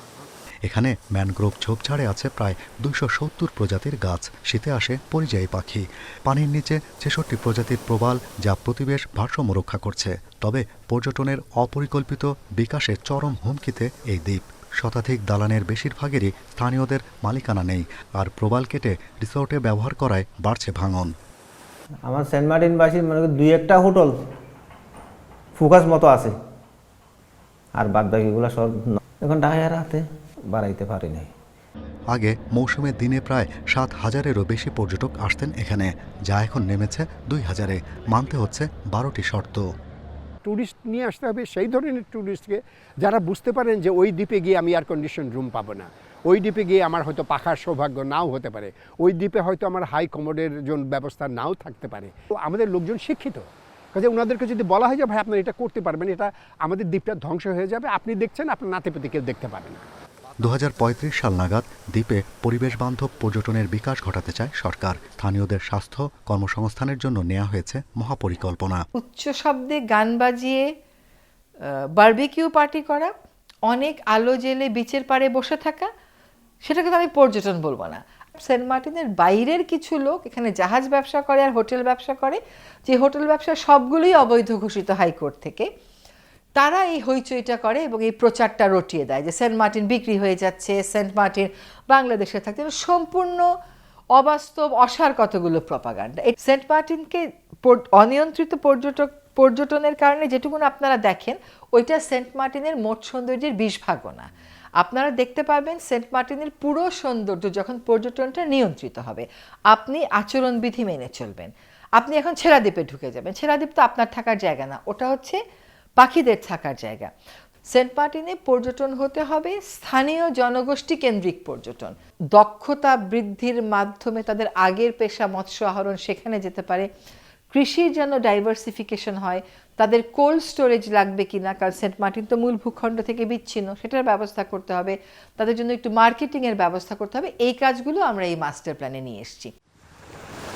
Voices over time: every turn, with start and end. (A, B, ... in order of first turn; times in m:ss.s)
0:00.7-0:21.1 A
0:22.0-0:24.2 B
0:25.6-0:26.4 B
0:27.8-0:31.3 B
0:32.1-0:39.6 A
0:40.4-0:59.8 C
1:00.4-1:08.8 A
1:09.0-1:10.7 D
1:12.0-1:13.1 D
1:13.7-1:15.9 D
1:16.6-1:25.7 D
1:26.6-1:33.5 D
1:34.2-1:44.3 D
1:44.8-1:55.4 D
1:56.0-1:57.1 D
1:57.7-2:06.9 D
2:07.5-2:19.5 D